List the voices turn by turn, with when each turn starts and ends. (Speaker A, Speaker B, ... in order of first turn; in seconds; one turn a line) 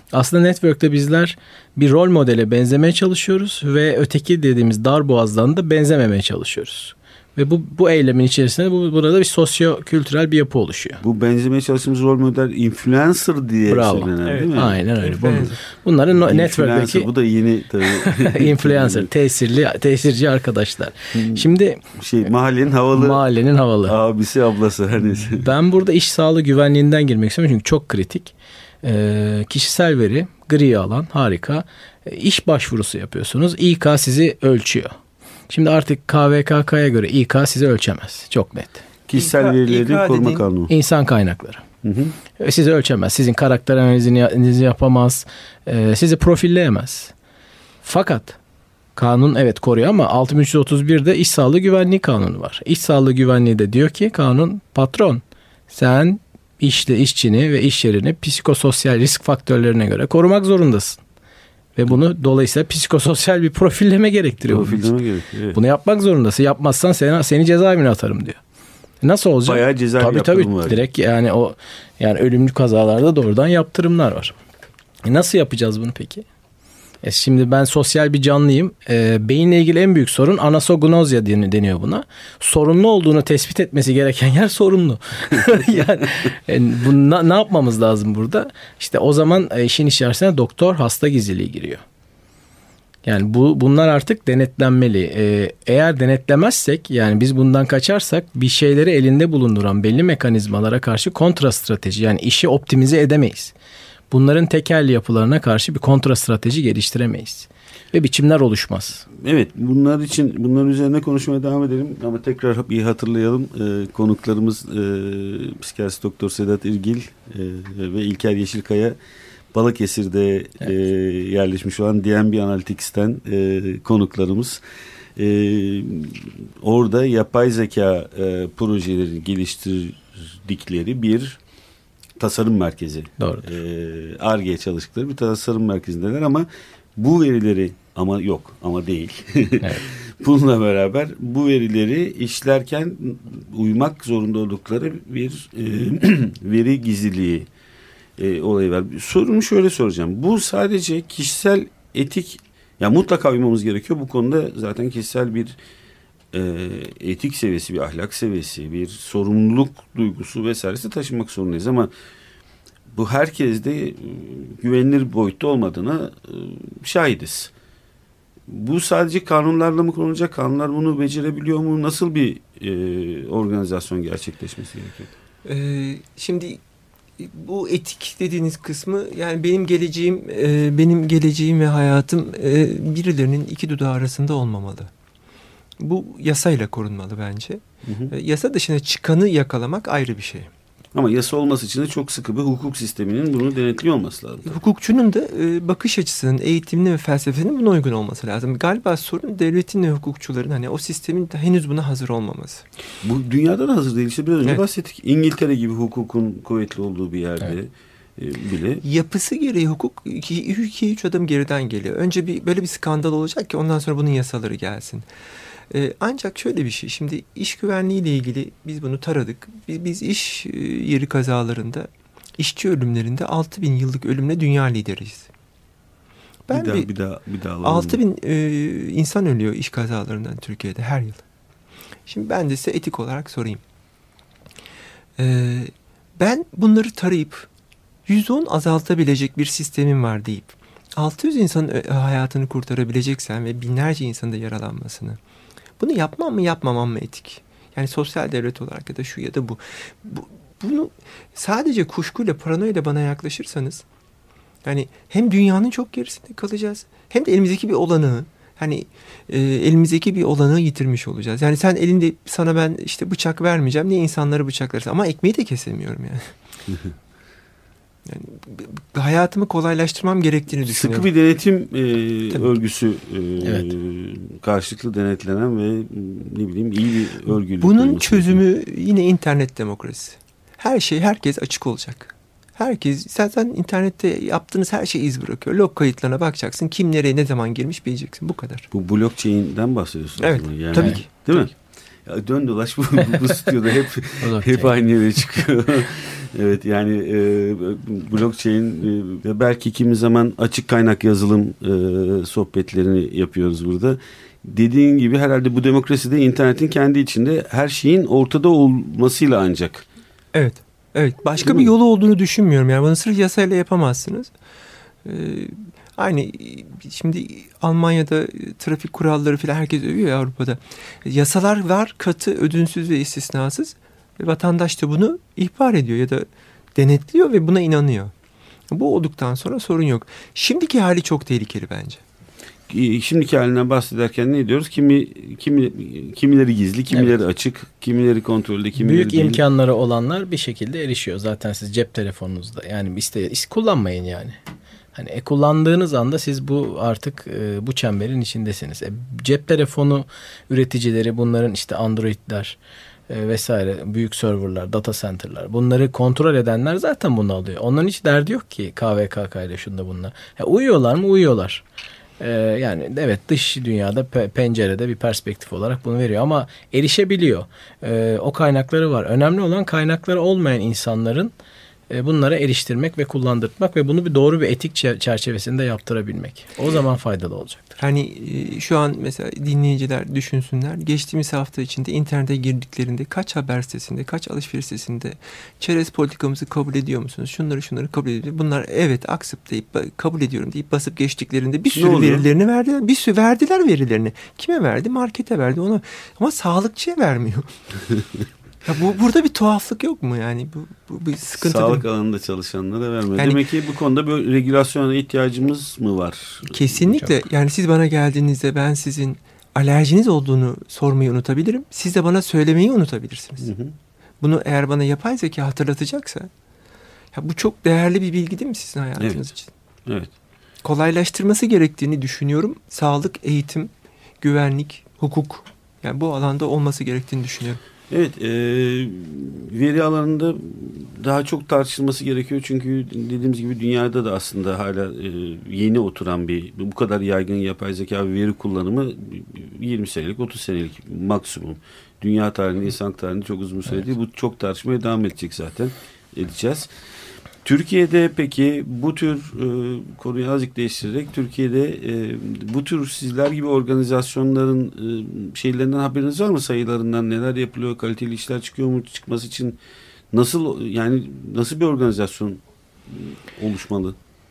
Speaker A: 0.1-11.0
Speaker B: 11.0-14.8
Speaker A: 13.7-17.1
Speaker C: 14.2-15.6
Speaker B: 16.1-19.1
Speaker A: 18.0-21.8
Speaker B: 21.1-23.2
Speaker A: 22.9-24.0
Speaker B: 23.9-25.5
Speaker A: 25.1-35.0
Speaker A: 35.5-38.8
Speaker B: 39.1-40.7
Speaker C: 39.1-40.5
Speaker A: 40.7-41.6
Speaker B: 41.8-42.1
Speaker A: 42.4-47.1
Speaker A: 47.8-48.4
Speaker A: 49.0-61.0
Speaker A: 61.8-64.9
Speaker B: 64.4-65.6
Speaker A: 65.5-68.4
Speaker A: 69.0-74.4
Speaker B: 69.5-70.8
Speaker A: 75.0-76.2
Speaker A: 77.0-91.8
Speaker A: 93.0-103.5
Speaker A: 104.1-109.1
Speaker B: 109.2-119.0
Speaker B: 119.5-124.6
Speaker B: 125.2-131.4
Speaker B: 132.2-147.5
Speaker A: 133.2-133.5
Speaker B: 148.2-155.6
Speaker B: 156.3-161.9
Speaker B: 162.9-167.5
Speaker B: 168.5-175.1
Speaker C: 175.4-176.6
Speaker C: 177.2-184.9
Speaker C: 185.8-190.5
Speaker B: 187.9-188.1
Speaker B: 190.9-194.6
Speaker C: 194.5-202.7
Speaker B: 203.0-208.8
Speaker C: 208.8-215.1
Speaker C: 215.7-225.3
Speaker C: 226.5-226.9
Speaker B: 226.5-228.0
Speaker C: 227.6-231.2
Speaker C: 232.1-233.6
Speaker C: 235.2-237.5
Speaker C: 238.1-245.2
Speaker C: 245.8-253.8
Speaker C: 254.7-266.3
Speaker C: 268.1-271.1
Speaker B: 270.6-278.4
Speaker A: 273.4-273.7
Speaker C: 277.6-288.7
Speaker B: 288.7-309.9
Speaker C: 290.2-291.5
Speaker A: 294.2-294.7
Speaker C: 310.3-314.3
Speaker B: 311.4-311.7
Speaker C: 315.1-328.1
Speaker C: 328.7-332.0
Speaker B: 332.7-339.4
Speaker A: 338.8-344.4
Speaker A: 344.9-352.6
Speaker A: 353.1-361.6
Speaker A: 362.2-371.3
Speaker A: 371.9-377.8
Speaker C: 377.8-397.5
Speaker B: 391.7-392.3
Speaker C: 398.6-401.9
Speaker B: 401.3-406.6
Speaker C: 403.2-403.4
Speaker C: 406.5-413.5
Speaker B: 413.4-413.8
Speaker C: 414.2-416.3
Speaker C: 417.1-419.5
Speaker B: 419.9-420.1
Speaker C: 420.6-423.7
Speaker C: 424.2-427.6
Speaker B: 427.9-446.7
Speaker B: 447.4-459.6
Speaker B: 460.1-464.0